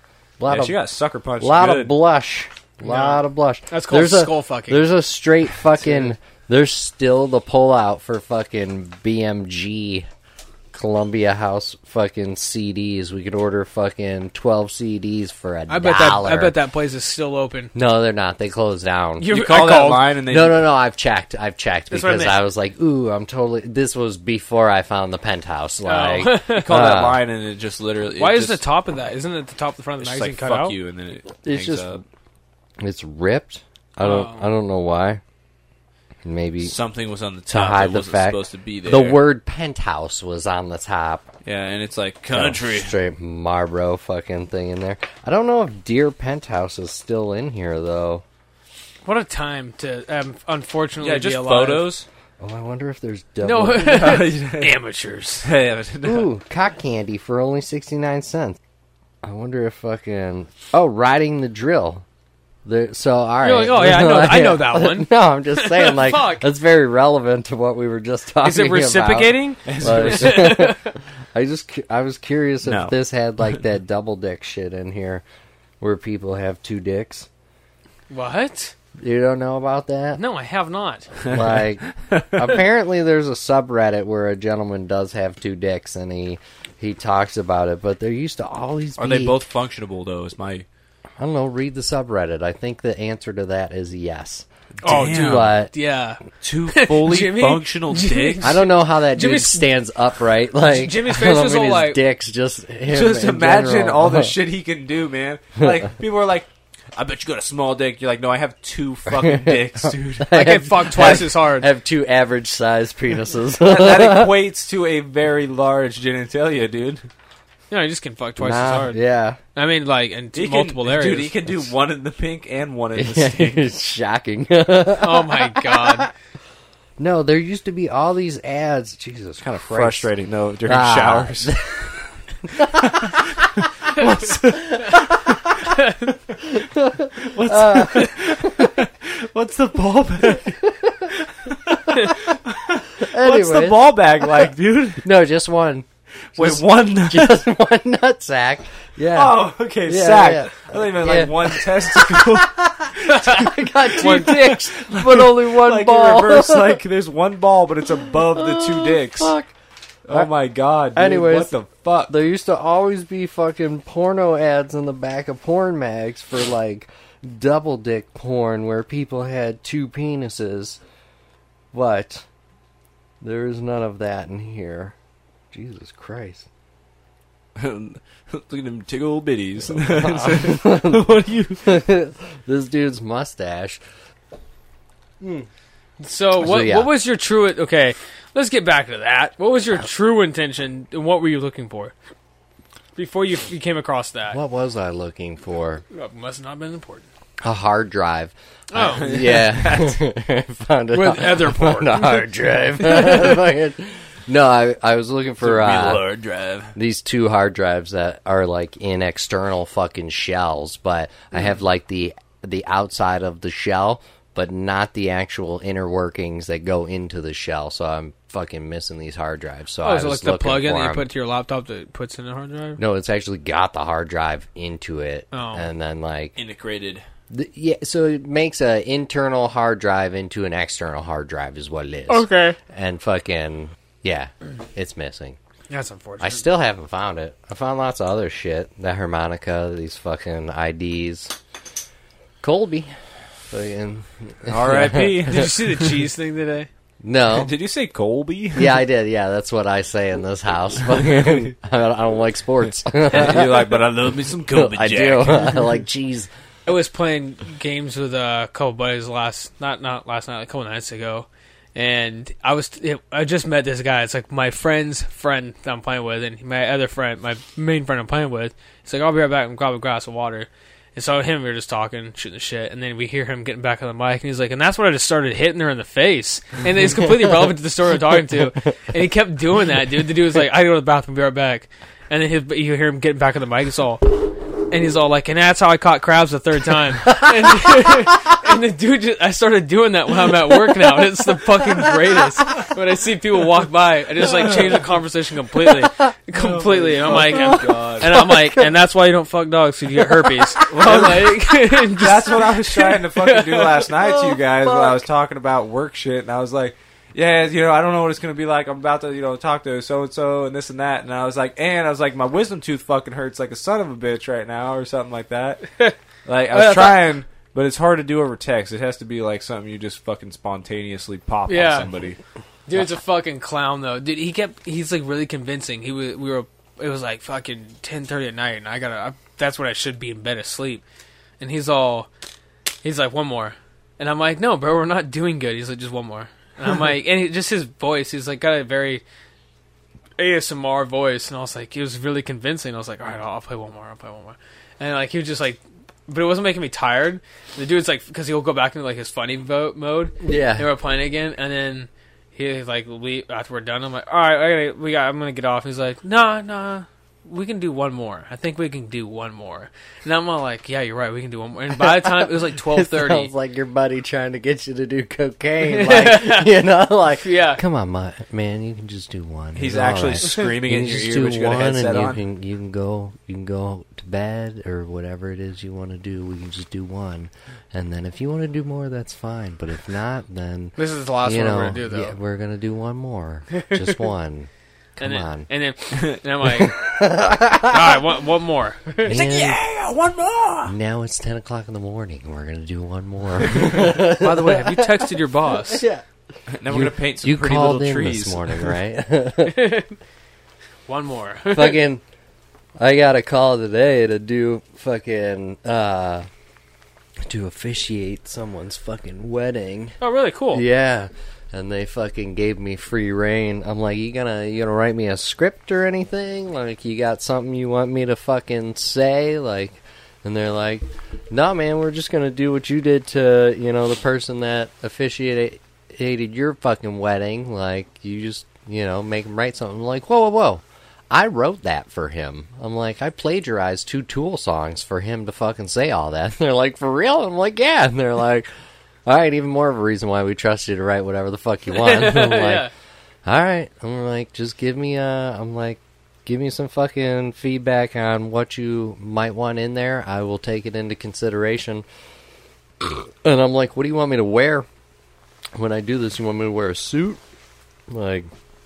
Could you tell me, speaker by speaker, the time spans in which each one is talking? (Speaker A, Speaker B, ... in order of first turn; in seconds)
Speaker A: 0.4-0.8, 1.4-10.1, 10.7-16.6, 17.8-19.3, 20.3-27.2, 31.4-31.9, 32.8-35.2, 36.2-36.7, 37.5-41.3, 42.3-48.2, 52.4-54.2, 56.0-58.6, 59.2-62.0, 62.7-75.2, 75.8-77.3, 79.0-80.2, 81.2-89.4, 91.2-95.7, 98.4-104.3, 105.6-105.9, 109.1-114.3, 118.4-119.4, 123.0-126.1, 127.0-130.1, 130.7-131.9, 132.5-135.8, 136.4-138.8, 140.2-141.1, 141.7-142.2, 143.0-143.8, 145.0-156.8, 158.0-159.5, 160.9-161.5, 162.1-170.8, 171.7-172.3, 173.2-174.9, 175.5-176.5, 179.7-181.1, 181.6-183.8, 185.2-185.5, 186.4-186.9, 194.3-195.8, 197.4-206.0, 206.8-221.1, 222.8-226.4, 227.3-235.4, 236.2-241.3, 242.4-242.9, 243.5-245.3, 247.0-247.5, 248.6-253.7, 254.5-256.3, 287.1-287.9, 297.4-298.6, 300.1-301.0, 304.6-304.9, 350.2-350.7, 361.8-385.5, 386.4-388.0, 389.0-389.6, 390.7-396.0, 396.7-399.7, 401.5-402.0, 402.8-406.3, 407.3-410.0, 410.5-438.5, 439.1-442.7, 443.3-451.9, 452.8-454.7, 455.6-457.2, 457.9-458.3
Speaker B: 0.5-1.9, 19.3-20.7, 26.5-28.6, 30.0-32.0, 36.6-39.2, 41.4-43.0, 51.0-52.1, 53.8-54.8, 55.4-56.3, 69.7-70.6, 72.6-73.0, 81.2-82.6, 89.0-90.7, 94.8-95.5, 96.4-98.6, 102.9-110.3, 113.6-117.1, 120.3-123.7, 129.4-131.6, 132.6-135.3, 137.2-140.6, 141.1-145.1, 146.4-147.5, 149.1-159.3, 160.1-162.1, 177.6-181.7, 198.9-200.0, 205.4-206.8, 226.4-227.0, 244.5-246.1, 247.3-248.8, 250.9-251.5, 253.1-255.6, 294.4-294.8, 296.3-298.3, 300.7-315.6, 316.3-322.2, 369.6-372.2, 389.1-390.7, 396.5-398.8
Speaker C: 2.8-4.8, 15.7-17.7, 19.2-20.0, 21.9-22.4, 25.9-26.7, 28.2-30.8, 34.0-34.5, 49.0-51.9, 53.4-55.5, 63.4-66.5, 68.4-70.9, 78.1-78.7, 80.2-81.1, 94.8-99.7, 100.6-102.0, 110.3-111.7, 117.7-119.0, 119.5-121.3, 125.0-126.1, 135.8-136.1, 153.1-154.6, 186.0-191.9, 193.0-194.4, 195.9-197.1, 198.7-199.1, 200.9-202.3, 202.8-203.4, 219.8-222.8, 225.3-225.7, 232.1-232.6, 235.7-236.4, 245.3-246.7, 256.7-304.0, 316.5-317.0, 321.5-321.9, 322.7-330.8, 331.4-332.1, 332.8-339.0, 340.2-363.3, 365.6-366.5, 367.2-367.6, 380.8-382.1, 383.5-384.0, 385.0-386.8, 387.6-389.1, 394.0-395.8, 399.5-399.9, 400.9-401.8, 410.0-410.6, 441.7-442.7